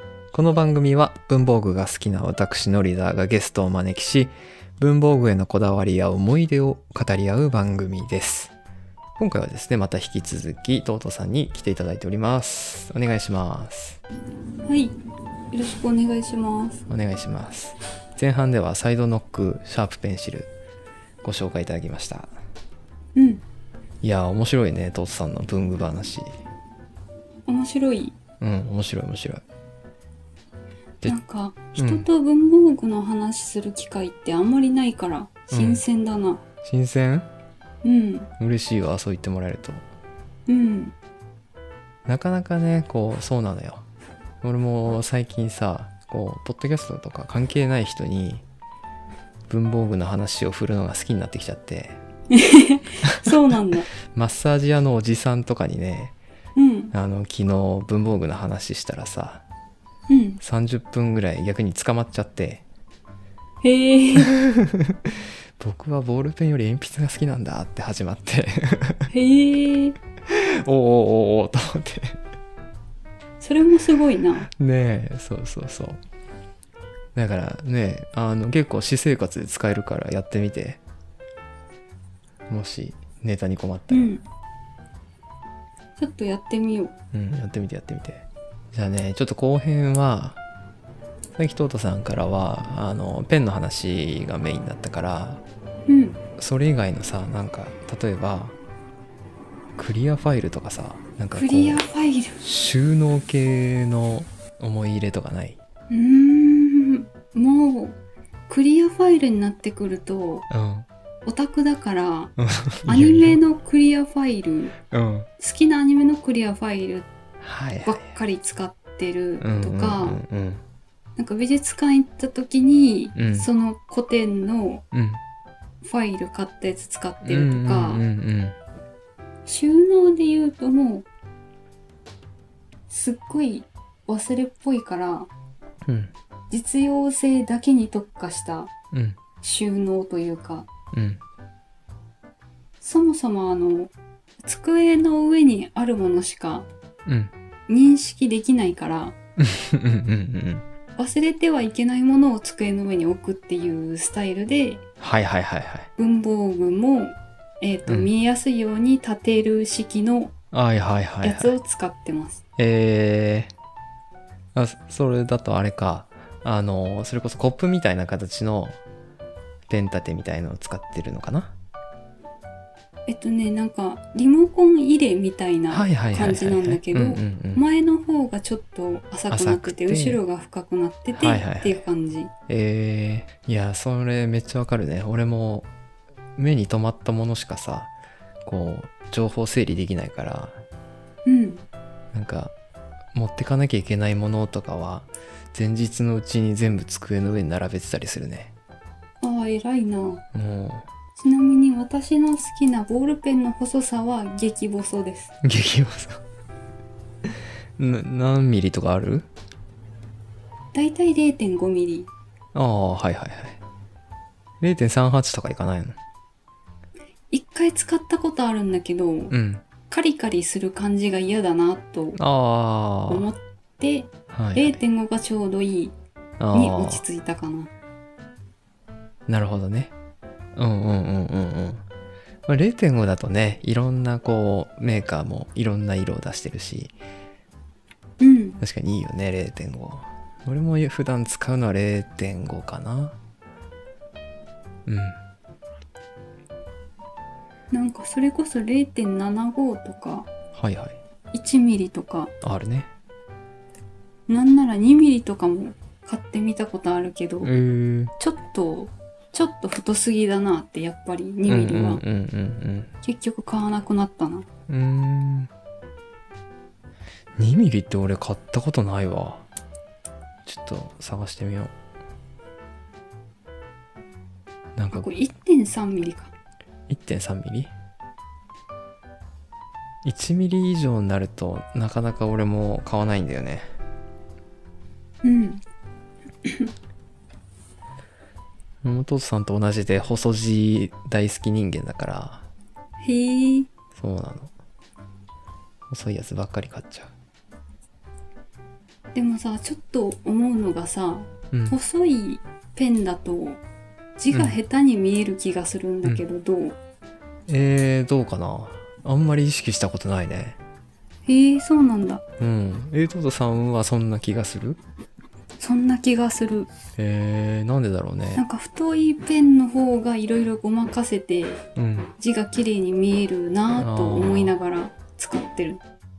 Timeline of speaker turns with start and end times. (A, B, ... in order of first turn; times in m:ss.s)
0:00.3-0:08.5 A
0:09.2-0:14.0 A
0:14.6-0:15.0 B
0:15.5-0:16.8 B
0:16.9-0:20.5 A
0:21.2-0:22.3 A
0:23.1-0:23.4 B
0:24.0-0:26.3 A
0:27.4-0:28.1 B
0:28.4-0:29.4 A
0:31.0-0:36.4 B
0:31.8-0:32.0 A
0:35.5-0:35.8 A
0:36.6-0:37.3 A
0:37.8-0:38.3 B
0:38.4-0:39.8 A
0:40.5-0:40.9 B
0:42.0-0:43.8 A
0:44.4-0:48.4 A
0:49.5-0:52.0 A
0:52.3-0:53.9 B
0:54.1-0:56.1 A
0:56.6-0:56.9 B
0:56.9-0:59.4 A
1:00.1-1:00.4 B
1:00.4-1:02.6 A
1:03.6-1:04.3 B
1:04.4-1:09.1 A
1:09.1-1:10.0 B
1:10.3-1:12.2 A
1:13.4-1:14.5 B
1:14.5-1:16.0 A
1:17.1-1:20.8 A
1:22.5-1:24.2 A
1:23.9-1:24.2 B
1:26.0-1:26.9 B
1:27.1-1:30.4 A
1:31.4-1:35.4 A
1:35.9-1:36.2 B
1:36.4-1:38.5 A
1:39.8-1:41.8 A
1:41.4-1:42.4 B
1:42.4-1:45.6 A
1:45.9-1:48.0 B
1:48.5-1:50.4 B
1:50.5-1:50.9 A
1:51.2-1:52.3 B
1:52.4-1:53.4 A
1:52.9-1:54.7 B
1:54.9-1:55.3 A
1:55.4-1:57.1 B
1:57.4-1:58.0 A
1:57.8-2:00.2 B
1:59.4-2:00.6 A
2:01.2-2:04.8 B
2:03.2-2:03.5 A
2:04.9-2:05.2 A
2:05.8-2:08.0 B
2:07.2-2:08.6 A
2:09.4-2:11.1 B
2:12.9-2:15.3 B
2:15.8-2:16.1 A
2:16.5-2:18.7 B
2:18.9-2:19.2 A
2:19.4-2:20.7 B
2:20.9-2:21.2 A
2:22.8-2:23.9 B
2:24.4-2:26.7 B
2:27.0-2:27.3 A
2:27.7-2:29.1 B
2:29.4-2:30.6 A
2:31.0-2:34.8 B
2:35.0-2:35.9 A
2:36.0-2:40.3 B
2:37.9-2:38.1 A
2:40.5-2:41.5 A
2:41.2-2:42.4 B
2:42.6-2:43.5 A
2:44.5-2:48.8 A
2:49.7-2:51.5 A
2:53.1-3:02.3 B
2:55.7-2:57.6 A
2:59.3-3:00.2 A
3:01.1-3:01.8 A
3:02.5-3:05.7 A
3:06.4-3:07.9 A
3:08.4-3:10.6 A
3:11.2-3:11.6 B
3:12.1-3:12.5 A
3:13.1-3:18.5 A
3:19.2-3:20.2 B
3:20.3-3:20.9 A
3:21.2-3:25.3 B
3:25.4-3:26.2 A
3:27.8-3:29.3 A
3:30.7-3:32.1 B
3:32.5-3:33.6 A
3:34.6-3:36.0 A
3:37.3-3:39.3 B
3:39.3-3:39.6 A
3:39.9-3:42.2 B
3:42.2-3:43.3 A
3:43.1-3:45.9 B
3:44.3-3:44.8 A
3:46.4-3:47.0 A
3:46.5-3:47.7 B
3:49.3-3:49.9 A
3:50.6-3:51.8 A
3:52.5-3:56.9 A
3:58.2-3:58.6 B
3:58.6-4:03.2 A
4:04.8-4:05.2 A
4:07.7-4:10.3 B
4:10.5-4:11.0 A
4:11.3-4:12.3 B
4:12.4-4:12.9 A
4:14.3-4:17.5 B
4:17.4-4:18.1 A
4:18.2-4:22.0 B
4:21.4-4:22.9 A
4:23.0-4:24.4 B
4:24.7-4:25.5 A
4:27.4-4:29.4 A
4:30.4-4:31.7 A
4:34.8-4:35.0 A
4:34.9-4:36.3 B
4:36.9-4:37.7 A
4:40.0-4:43.7 A
4:45.2-4:45.6 B
4:46.4-4:46.7 B
4:48.8-4:52.4 A
4:53.0-4:53.7 B
4:53.9-4:54.5 A
4:55.9-4:57.1 A
4:59.1-5:03.6 B
5:01.5-5:01.8 A
5:04.2-5:06.8 B
5:04.3-5:04.6 A
5:07.5-5:10.6 A
5:11.2-5:12.2 B
5:12.4-5:14.8 A
5:15.6-5:16.7 B
5:17.0-5:18.4 A
5:18.4-5:21.6 B
5:21.8-5:22.1 A
5:22.2-5:25.8 B
5:23.8-5:24.5 A